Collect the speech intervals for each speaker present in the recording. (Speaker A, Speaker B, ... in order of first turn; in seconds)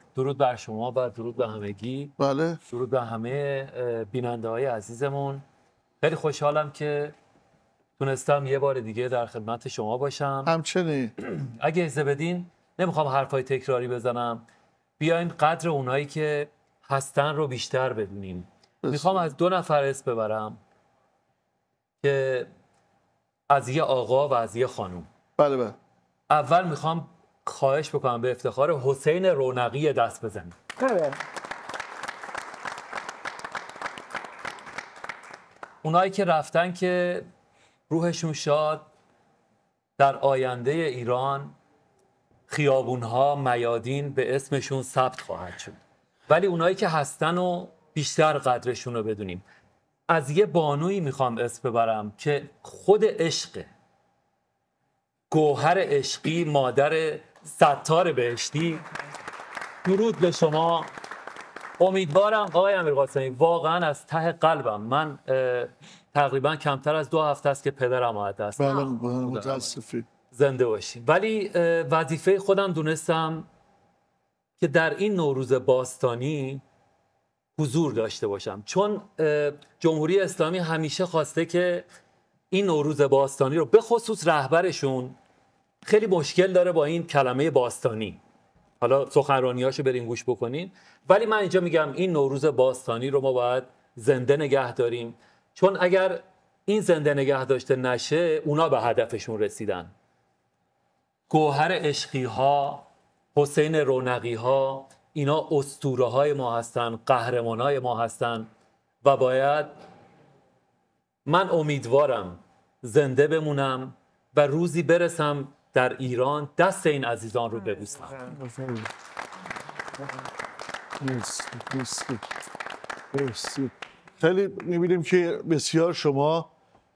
Speaker A: 0.1-2.1, 2.7-5.5, 6.0-7.1, 8.0-10.5, 11.4-14.4, 15.0-20.6, 22.0-22.5, 23.5-25.1, 26.3-30.6, 35.8-37.2, 37.9-38.9, 40.0-41.6, 42.5-49.4, 50.1-53.7, 55.3-58.9, 59.9-60.9, 61.8-69.7, 70.3-73.5, 74.6-76.6, 77.6-81.8, 82.5-85.2, 85.9-88.2, 88.8-99.9, 101.3-108.5, 109.0-109.8, 111.3-118.2
Speaker B: 2.2-2.6, 10.4-11.1, 18.8-19.2, 25.4-25.8, 68.6-70.1, 118.3-118.9, 121.0-122.2, 123.1-126.5